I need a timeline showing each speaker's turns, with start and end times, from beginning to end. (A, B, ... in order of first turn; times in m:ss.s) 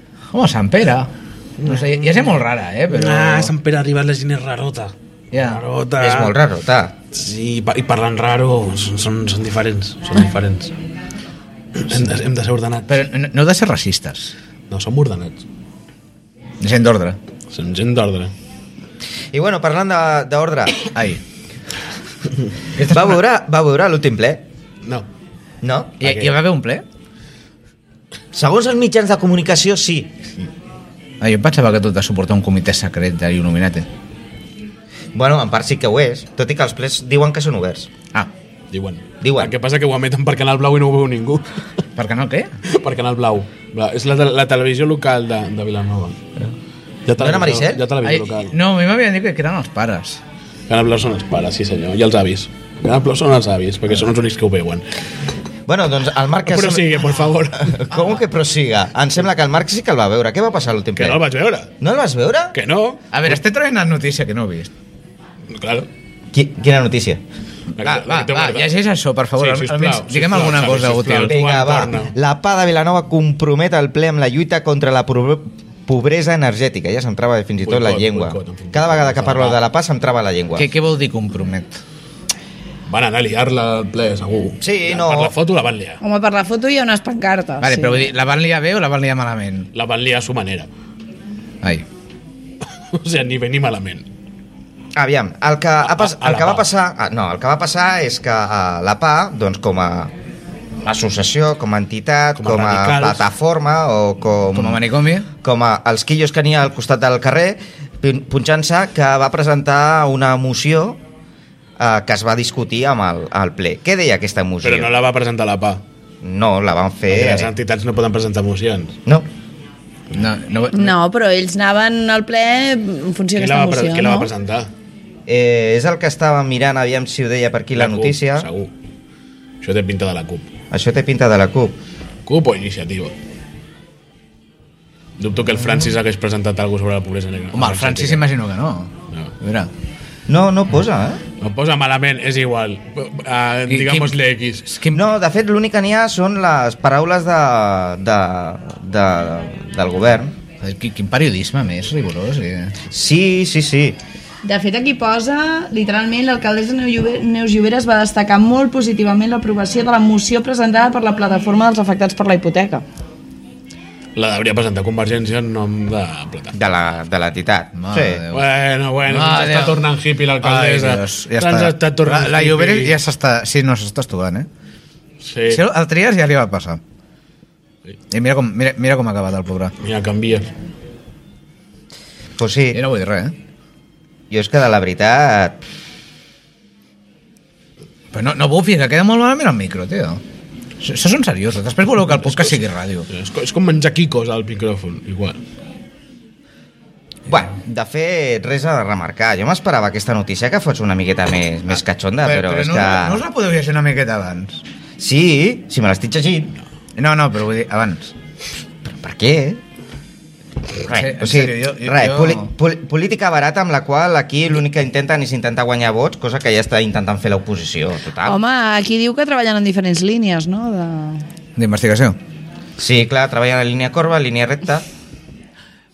0:00.3-0:03.5 A
0:01.6-0:02.3 B
0:02.9-0:06.4 B
0:05.3-0:05.6 A
0:06.0-0:07.0 C
0:07.1-0:10.7 B
0:11.8-0:13.0 B
0:12.9-0:14.3 A
0:14.7-0:15.4 B
0:16.6-0:17.2 A
0:17.5-0:18.3 B
0:19.3-0:20.9 C
0:20.9-0:21.2 A
0:22.8-0:23.2 A
0:22.8-0:24.4 C
0:25.6-0:26.0 C
0:26.0-0:26.8 A
0:26.0-0:26.3 B
0:28.3-0:30.2 C
0:31.2-0:33.9 A
0:35.1-0:37.9 C
0:38.7-0:41.6 B
0:39.2-0:39.5 C
0:42.0-0:42.5 A
0:42.7-0:46.2 B
0:47.1-0:48.5 B
0:47.2-0:47.8 C
0:48.0-0:50.2 A
0:50.7-0:54.8 B
0:55.7-1:01.2 C
0:56.5-0:58.0 B
1:01.0-1:01.7 B
1:01.8-1:02.6 C
1:02.5-1:03.2 B
1:03.1-1:04.7 A
1:05.5-1:05.9 B
1:06.3-1:07.2 C
1:07.8-1:08.7 B
1:07.8-1:11.4 A
1:09.4-1:12.1 B
1:11.3-1:20.7 C
1:17.6-1:19.6 B
1:20.6-1:21.8 A
1:22.9-1:26.0 B
1:24.6-1:25.3 C
1:26.0-1:28.1 D
1:27.6-1:29.7 A
1:29.7-1:30.7 B
1:32.9-1:34.0 B
1:35.0-1:40.1 C
1:35.8-1:36.7 B
1:40.8-1:44.8 C
1:42.4-1:43.2 B
1:44.5-1:45.3 A
1:45.4-1:51.0 C
1:51.8-1:54.9 C
1:54.6-1:55.8 B
1:56.2-1:57.5 C
1:57.1-1:59.0 B
2:00.1-2:00.9 A
2:00.7-2:04.3 D
2:03.4-2:04.7 B
2:05.3-2:08.5 C
2:07.7-2:08.7 B
2:09.6-2:10.5 B
2:10.7-2:11.8 C
2:12.2-2:13.1 B
2:15.2-2:18.3 B
2:17.5-2:19.7 A
2:20.3-2:21.2 C
2:21.4-2:24.7 B
2:23.7-2:25.1 A
2:24.9-2:30.3 C
2:30.6-2:32.7 A
2:32.9-2:34.0 C
2:34.4-2:42.8 D
2:44.2-2:46.5 B
2:46.5-2:48.2 C
2:47.8-2:48.4 A
2:48.3-2:53.0 B
2:49.1-2:49.8 A
2:50.4-2:54.5 A
2:55.2-2:55.6 B
2:55.5-2:56.8 A
2:58.1-2:59.7 A
2:59.8-3:00.5 B
3:02.4-3:02.8 C
3:02.7-3:03.3 A
3:04.3-3:05.6 C
3:08.1-3:10.2 A
3:10.8-3:13.1 A
3:13.1-3:15.4 B
3:17.3-3:23.2 C
3:22.2-3:24.6 A
3:25.0-3:26.6 C
3:27.0-3:28.1 A
3:28.8-3:29.6 C
3:30.8-3:38.4 C
3:30.8-3:32.5 A
3:38.2-3:41.2 D
3:41.6-3:42.2 A
3:42.8-3:44.8 C